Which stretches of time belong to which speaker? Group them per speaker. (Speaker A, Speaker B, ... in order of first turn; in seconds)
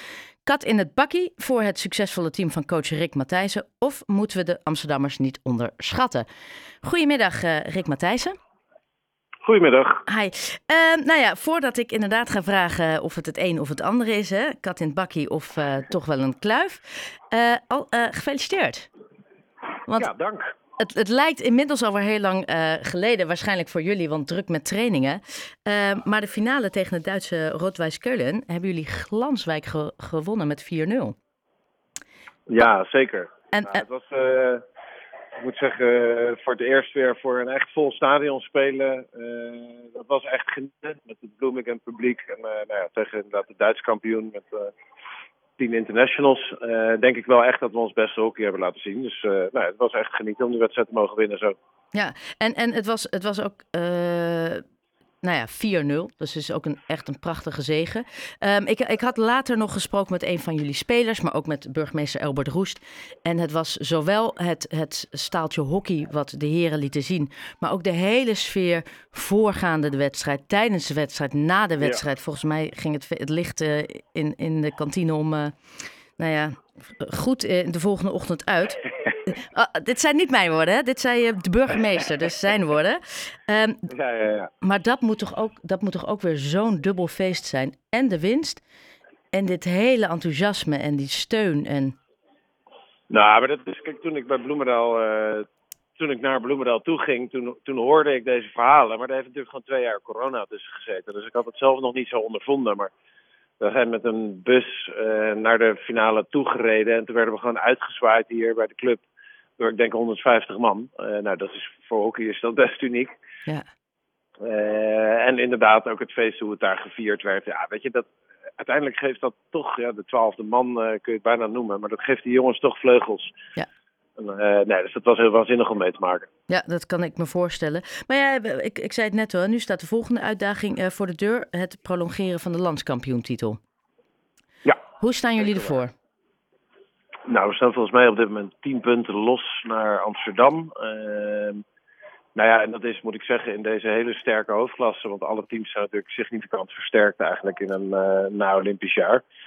Speaker A: 0.5-6.2, 6.8-8.3, 10.1-18.9, 20.8-31.1, 33.5-33.8, 51.9-54.6, 55.2-75.5, 76.2-83.8, 84.6-88.6, 89.3-92.0, 126.5-133.6, 135.0-135.9
Speaker B: 9.4-10.0, 19.9-20.5, 32.5-34.6, 35.4-44.7, 45.6-51.5, 83.9-84.5, 93.1-95.5, 96.0-102.9, 103.6-109.0, 109.6-113.1, 114.4-123.3, 124.2-126.3, 137.2-141.6, 142.3-149.2